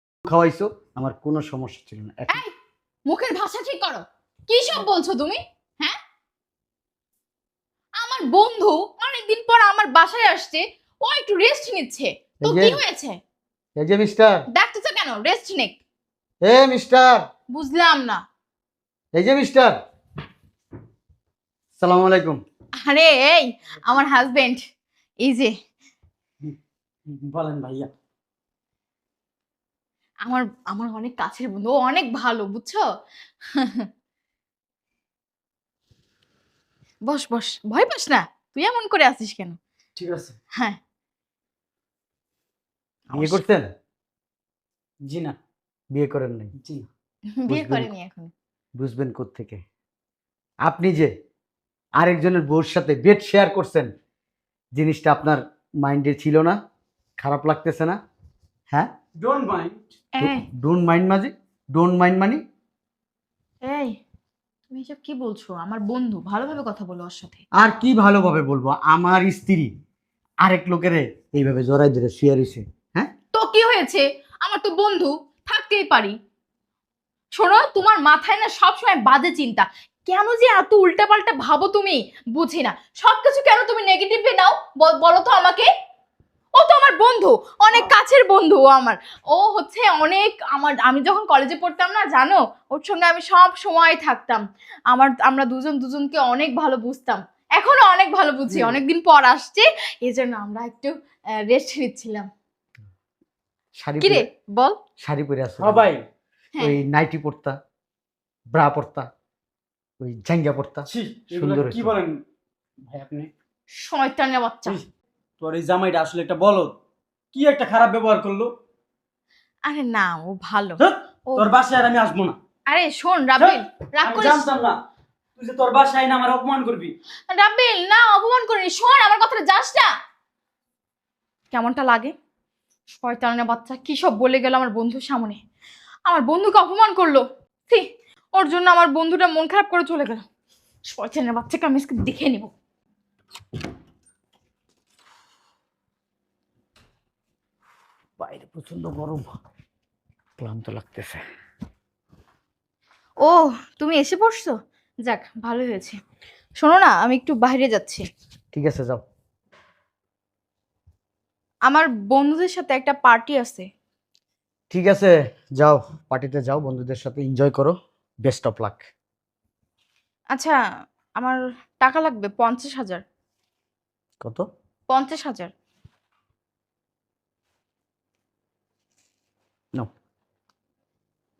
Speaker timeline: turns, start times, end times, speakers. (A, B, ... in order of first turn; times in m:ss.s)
0:00.2-0:02.4 A
0:03.0-0:06.0 B
0:08.0-0:13.2 B
0:12.4-0:12.8 A
0:13.8-0:14.4 A
0:14.5-0:15.8 B
0:16.4-0:17.2 A
0:17.5-0:18.2 B
0:19.2-0:19.7 A
0:21.8-0:22.4 A
0:22.8-0:24.6 B
0:25.2-0:25.5 B
0:27.1-0:27.9 C
0:30.2-0:32.8 B
0:33.5-0:33.9 B
0:37.0-0:39.6 B
0:40.0-0:40.3 C
0:43.1-0:43.4 B
0:43.1-0:43.7 A
0:45.0-0:45.4 C
0:45.9-0:46.5 A
0:46.6-0:46.8 C
0:47.3-0:48.3 B
0:47.5-0:47.9 A
0:48.8-0:49.6 A
0:50.6-0:51.1 A
0:52.0-0:53.9 A
0:54.7-0:56.6 A
0:57.2-0:58.0 A
0:59.2-0:59.9 C
1:00.2-1:00.5 B
1:00.2-1:02.4 A
1:03.6-1:04.0 B
1:04.7-1:07.4 B
1:07.6-1:09.7 A
1:10.4-1:13.1 A
1:13.3-1:16.2 B
1:17.3-1:25.7 B
1:26.6-1:42.3 B
1:43.8-1:44.2 A
1:44.0-1:44.8 B
1:45.0-1:45.9 A
1:45.6-1:46.0 C
1:46.6-1:47.6 A
1:48.5-1:49.1 A
1:50.0-1:52.0 A
1:50.9-1:52.2 C
1:52.8-1:53.3 C
1:53.8-1:54.8 B
1:55.4-1:56.8 C
1:57.3-1:58.5 C
1:59.6-2:01.5 B
2:00.8-2:02.4 C
2:02.7-2:04.5 B
2:03.4-2:04.8 C
2:05.4-2:06.9 C
2:07.3-2:09.9 B
2:11.5-2:12.1 B
2:13.0-2:15.4 B
2:16.1-2:20.2 B
2:20.9-2:22.5 B
2:28.2-2:29.3 A
2:30.4-2:31.2 A
2:33.2-2:36.0 B
2:36.6-2:38.0 B
2:38.5-2:39.0 A
2:41.7-2:43.7 B
2:44.7-2:48.8 A
2:50.3-2:50.6 B
2:51.2-2:53.0 B
2:54.9-2:55.5 B